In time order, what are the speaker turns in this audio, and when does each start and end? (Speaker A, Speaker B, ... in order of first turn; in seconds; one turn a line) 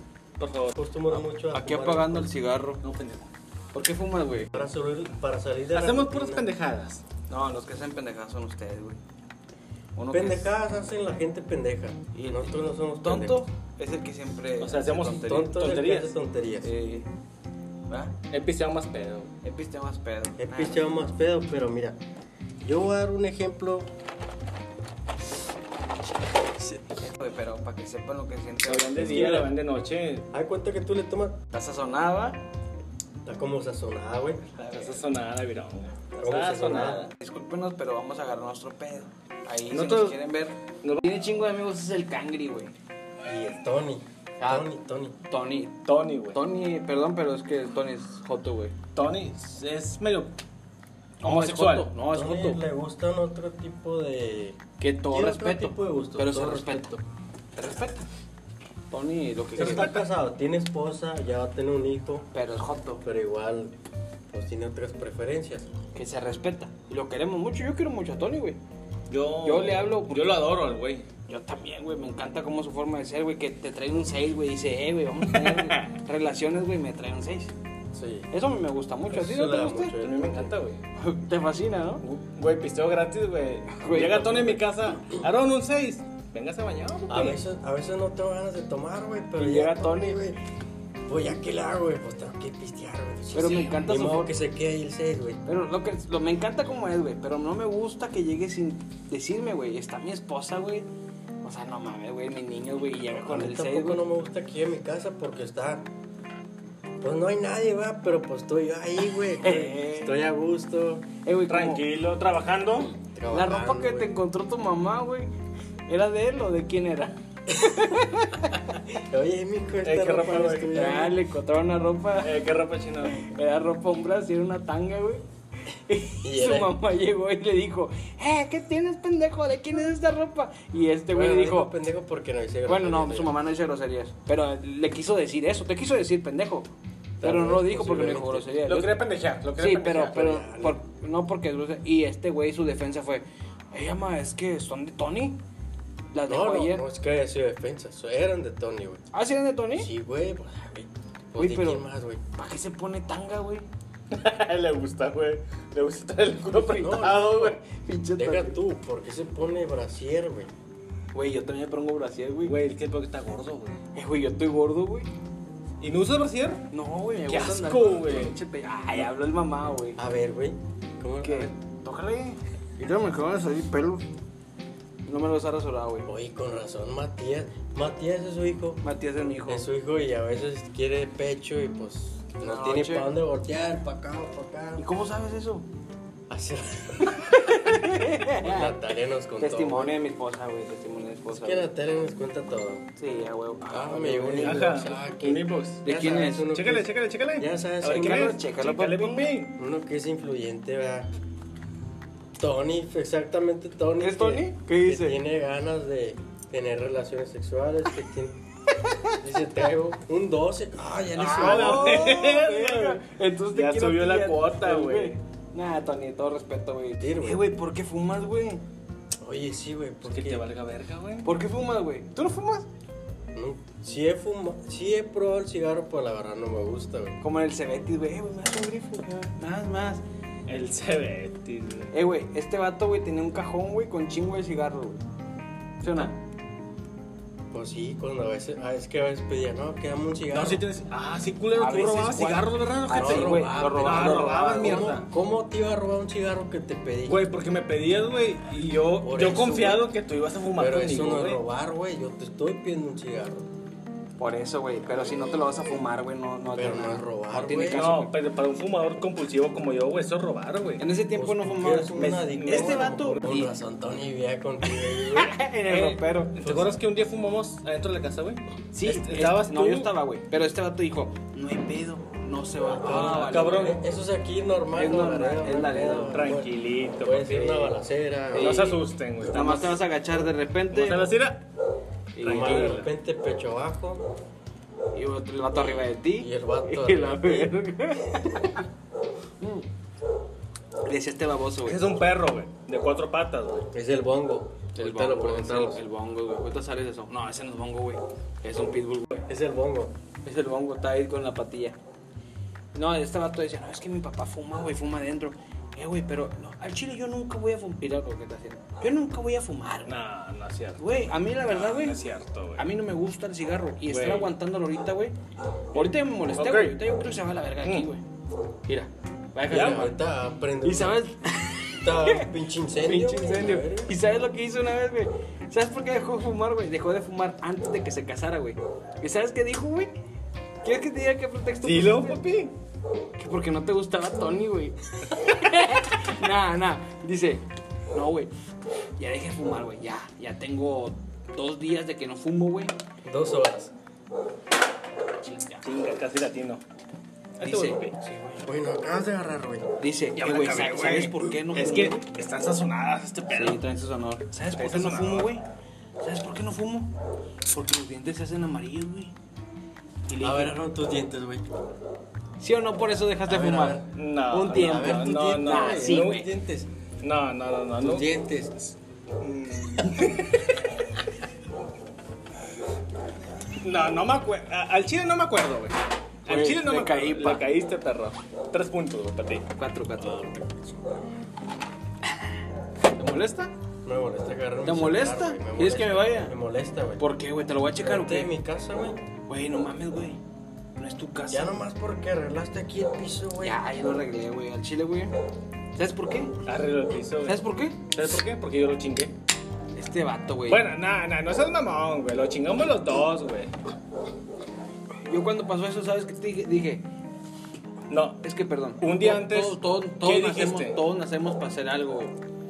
Speaker A: 0.4-0.8
Speaker B: 0.8-2.3
Speaker C: 1.5-2.8
Speaker A: 2.8-3.3
Speaker C: 3.7-4.5
Speaker B: 4.5-6.5
Speaker A: 5.7-7.0
Speaker C: 7.3-9.0
Speaker C: 10.0-10.5
Speaker B: 10.1-13.4
Speaker C: 12.1-15.6
Speaker A: 14.6-16.1
Speaker B: 15.2-16.7
Speaker C: 16.6-17.1
Speaker A: 18.3-19.3
Speaker C: 19.4-20.9
Speaker B: 20.4-22.0
Speaker B: 22.6-23.9
Speaker B: 26.6-26.8
Speaker C: 27.0-29.3
Speaker A: 28.7-30.3
Speaker B: 28.9-29.5
Speaker B: 30.3-31.4
Speaker C: 31.5-32.4
Speaker B: 33.2-34.4
Speaker C: 34.6-35.0
Speaker A: 34.7-37.1
Speaker B: 36.2-37.0
Speaker C: 37.2-42.7
Speaker A: 39.7-40.2
Speaker B: 43.2-45.2
Speaker C: 44.4-44.7
Speaker C: 45.3-45.8
Speaker A: 45.9-46.4
Speaker C: 46.3-48.7
Speaker A: 49.0-50.3
Speaker C: 51.2-52.6
Speaker A: 51.2-51.9
Speaker B: 52.1-54.6
Speaker C: 54.8-57.0
Speaker B: 55.1-57.0
Speaker C: 57.6-58.0
Speaker C: 58.9-59.9
Speaker A: 59.6-60.1
Speaker B: 59.6-62.3
Speaker C: 62.3-63.0
Speaker B: 63.0-63.7
Speaker B: 64.3-65.7
Speaker C: 66.0-68.6
Speaker A: 69.1-71.1
Speaker C: 69.4-70.4
Speaker C: 71.3-77.5
Speaker A: 75.3-75.8
Speaker B: 77.9-78.3
Speaker C: 78.3-80.0
Speaker B: 79.1-80.5
Speaker A: 80.0-80.8
Speaker C: 81.0-82.0
Speaker A: 82.2-87.4
Speaker C: 83.7-84.6
Speaker B: 87.1-90.4
Speaker C: 89.4-90.2
Speaker B: 91.1-95.4
Speaker C: 93.3-94.3
Speaker C: 95.5-100.9
Speaker C: 101.4-104.0
Speaker B: 103.3-105.9
Speaker B: 107.0-111.1
Speaker C: 109.4-110.2
Speaker C: 111.2-111.8
Speaker A: 111.5-113.0
Speaker B: 113.1-114.1
Speaker C: 113.3-115.3
Speaker C: 115.9-118.8
Speaker B: 117.5-117.8
Speaker B: 118.9-121.2
Speaker A: 119.8-120.8
Speaker C: 120.7-122.4
Speaker A: 122.2-123.2
Speaker C: 123.0-131.7
Speaker B: 126.2-126.7
Speaker B: 131.1-133.3
Speaker C: 132.7-136.7
Speaker B: 137.2-138.5
Speaker C: 137.2-139.0
Speaker A: 138.7-140.2
Speaker C: 139.6-145.4
Speaker B: 140.1-140.8
Speaker C: 146.1-146.8
Speaker B: 146.3-149.0
Speaker C: 149.1-149.9
Speaker B: 149.8-152.2
Speaker C: 151.3-151.8
Speaker C: 152.4-153.7
Speaker A: 154.1-157.5
Speaker C: 156.5-158.6
Speaker B: 156.8-157.6
Speaker B: 158.2-160.5
Speaker C: 161.1-162.5
Speaker A: 162.4-163.8
Speaker C: 163.9-165.1
Speaker A: 165.8-166.6
Speaker C: 166.7-170.0
Speaker A: 167.3-168.4
Speaker B: 170.0-171.5
Speaker C: 171.2-174.1
Speaker C: 175.1-176.1
Speaker B: 176.1-178.8
Speaker C: 178.8-179.7
Speaker B: 179.5-184.8
Speaker C: 182.4-183.1
Speaker C: 184.8-185.7
Speaker B: 186.3-189.9
Speaker C: 187.1-188.8
Speaker C: 189.4-191.7
Speaker B: 191.3-192.8
Speaker C: 193.0-194.7
Speaker B: 193.7-198.3
Speaker A: 194.4-195.8
Speaker C: 195.8-196.5
Speaker A: 196.4-199.5
Speaker C: 197.8-199.3
Speaker B: 199.6-201.1
Speaker B: 202.4-208.4
Speaker C: 204.0-205.2
Speaker C: 208.8-209.2
Speaker B: 209.2-212.0
Speaker C: 211.2-218.6
Speaker A: 211.2-213.0
Speaker A: 213.5-215.2
Speaker B: 217.0-217.4
Speaker B: 219.2-220.4
Speaker A: 220.1-221.3
Speaker C: 221.2-222.7
Speaker B: 223.3-227.2
Speaker C: 227.2-230.0
Speaker A: 230.5-231.9
Speaker C: 231.9-235.0
Speaker C: 235.8-236.2
Speaker B: 237.5-240.6
Speaker A: 240.3-245.1
Speaker C: 241.6-245.0
Speaker B: 242.9-247.2
Speaker A: 247.1-251.4
Speaker B: 249.0-249.9
Speaker B: 250.6-253.5
Speaker C: 254.2-258.1
Speaker B: 254.9-255.7
Speaker B: 256.5-257.9
Speaker A: 257.7-260.8
Speaker C: 260.8-263.5
Speaker B: 261.1-265.4
Speaker A: 262.0-263.2
Speaker C: 264.7-266.4
Speaker A: 265.7-269.9
Speaker B: 266.4-266.8
Speaker C: 268.7-273.8
Speaker B: 272.7-276.5
Speaker A: 272.9-273.8
Speaker C: 274.8-276.2
Speaker A: 276.1-277.8
Speaker B: 277.0-278.7
Speaker C: 278.3-281.1
Speaker A: 278.4-279.8
Speaker A: 280.7-281.4
Speaker C: 282.2-282.8
Speaker A: 282.2-282.9
Speaker B: 282.2-284.1
Speaker C: 284.9-288.6
Speaker B: 285.5-287.5
Speaker C: 289.4-289.7
Speaker C: 290.8-291.8
Speaker A: 291.6-293.7
Speaker B: 293.7-295.8
Speaker C: 294.8-299.2
Speaker B: 299.3-299.9
Speaker C: 300.2-301.8
Speaker C: 302.7-309.9
Speaker A: 309.9-310.8
Speaker C: 310.8-312.0
Speaker A: 311.4-312.6
Speaker C: 312.6-315.1
Speaker A: 313.9-314.3
Speaker C: 315.7-318.0
Speaker A: 316.4-316.8
Speaker C: 318.7-320.0
Speaker A: 319.5-319.9
Speaker B: 319.5-321.0
Speaker C: 320.6-329.9
Speaker B: 321.8-323.9
Speaker C: 330.6-332.2
Speaker A: 331.6-332.5
Speaker C: 333.2-338.3
Speaker C: 339.0-342.7
Speaker B: 343.1-343.7
Speaker C: 345.2-345.7
Speaker A: 345.6-346.6
Speaker A: 347.4-348.0
Speaker C: 347.4-348.5
Speaker B: 348.4-349.7
Speaker C: 349.8-352.1
Speaker A: 350.2-353.6
Speaker C: 353.3-355.4
Speaker A: 354.6-355.3
Speaker C: 356.0-356.9
Speaker C: 357.4-359.1
Speaker C: 360.1-360.6
Speaker B: 360.2-361.5
Speaker C: 362.4-366.3
Speaker B: 363.3-363.9
Speaker A: 363.9-366.3
Speaker B: 364.5-366.7
Speaker A: 367.0-368.1
Speaker B: 367.8-368.6
Speaker A: 369.2-370.4
Speaker A: 373.6-379.4
Speaker C: 376.3-377.5
Speaker C: 379.5-380.4
Speaker B: 380.0-380.9
Speaker C: 382.0-382.4
Speaker C: 383.0-383.5
Speaker B: 383.9-387.0
Speaker C: 384.6-386.4
Speaker C: 387.0-388.3
Speaker B: 387.8-389.0
Speaker C: 389.3-390.2
Speaker C: 390.8-391.6
Speaker B: 391.3-393.6
Speaker C: 393.4-395.1
Speaker C: 395.8-396.4
Speaker A: 396.4-399.1
Speaker C: 397.3-397.9
Speaker C: 399.8-400.6
Speaker A: 400.5-403.5
Speaker C: 405.0-406.9
Speaker A: 407.9-408.2
Speaker C: 408.2-412.2
Speaker A: 408.8-410.8